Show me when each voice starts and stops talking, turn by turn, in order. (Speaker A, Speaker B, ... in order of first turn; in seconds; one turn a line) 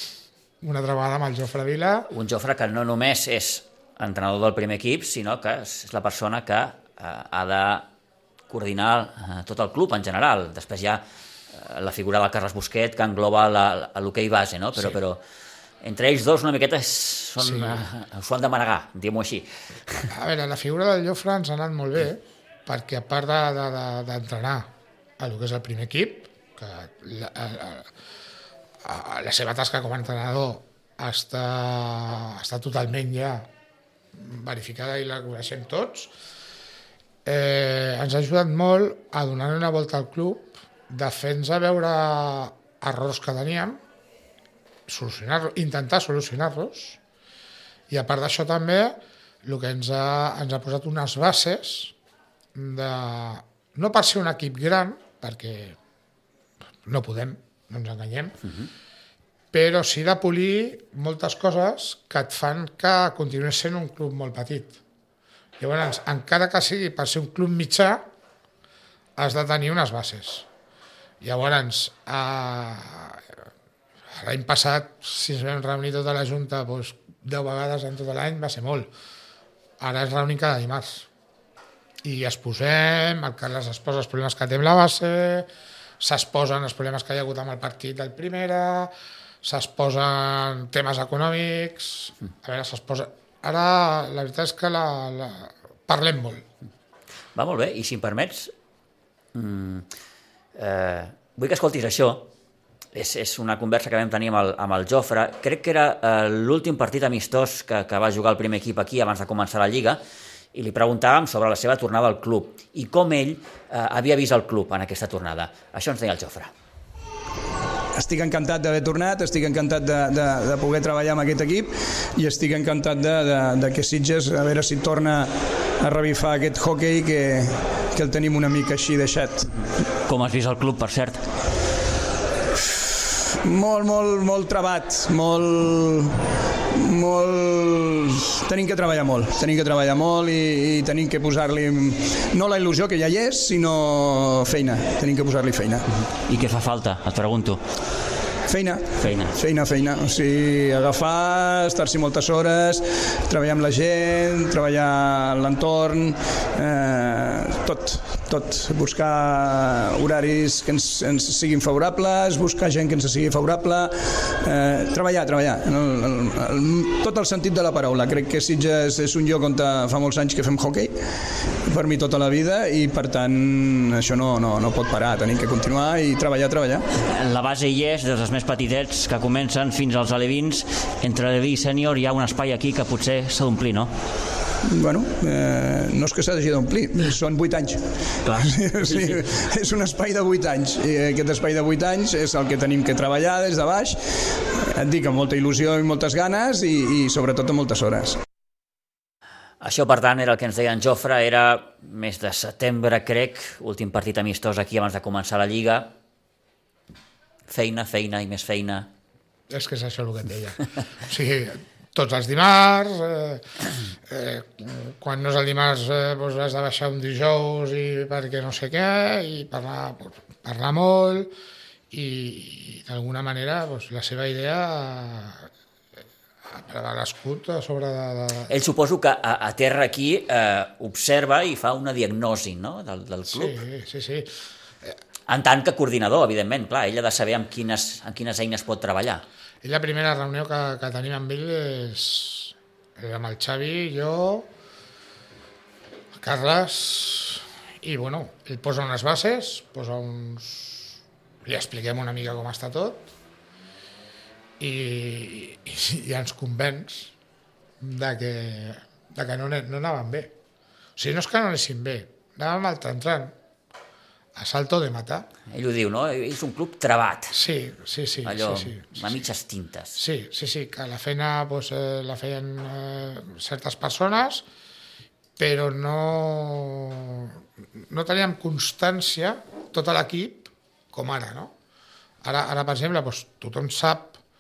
Speaker A: 0.6-2.1
Speaker B: 2.1-7.9
Speaker B: 8.5-15.2
Speaker B: 15.8-20.1
Speaker A: 17.4-17.8
Speaker A: 20.1-27.9
Speaker A: 28.8-33.5
Speaker A: 34.1-36.1
Speaker A: 37.2-43.8
Speaker A: 44.9-47.0
Speaker A: 47.9-51.9
Speaker A: 52.5-55.8
Speaker A: 56.9-58.4
Speaker A: 59.5-64.8
Speaker A: 65.6-68.0
Speaker A: 69.2-70.5
Speaker A: 71.2-73.2
Speaker A: 74.2-78.9
Speaker A: 79.8-81.1
Speaker A: 82.0-85.5
Speaker A: 86.0-88.9
Speaker A: 89.4-96.4
Speaker B: 97.3-98.5
Speaker B: 99.3-99.9
Speaker B: 100.6-102.3
Speaker B: 103.0-110.0
Speaker B: 110.5-116.5
Speaker C: 118.0-129.5
Speaker B: 130.1-131.3
Speaker C: 133.4-145.9
Speaker B: 146.0-147.6
Speaker C: 148.5-171.0
Speaker B: 149.0-149.4
Speaker C: 171.7-176.8
Speaker B: 177.0-183.9
Speaker C: 184.7-198.2
Speaker B: 188.2-189.3
Speaker B: 199.6-205.9
Speaker B: 207.5-208.9
Speaker A: 209.5-221.3
Speaker A: 221.9-225.5
Speaker A: 226.5-228.5
Speaker B: 228.5-233.6
Speaker A: 233.3-235.0
Speaker B: 235.3-239.2
Speaker A: 239.6-244.5
Speaker A: 246.1-253.1
Speaker A: 254.6-257.1
Speaker A: 257.8-260.3
Speaker A: 261.0-263.3
Speaker A: 264.4-265.3
Speaker B: 265.5-267.4
Speaker A: 267.3-269.0
Speaker B: 268.2-270.0
Speaker A: 270.0-274.5
Speaker A: 275.4-277.4
Speaker A: 277.9-281.5
Speaker A: 282.2-284.2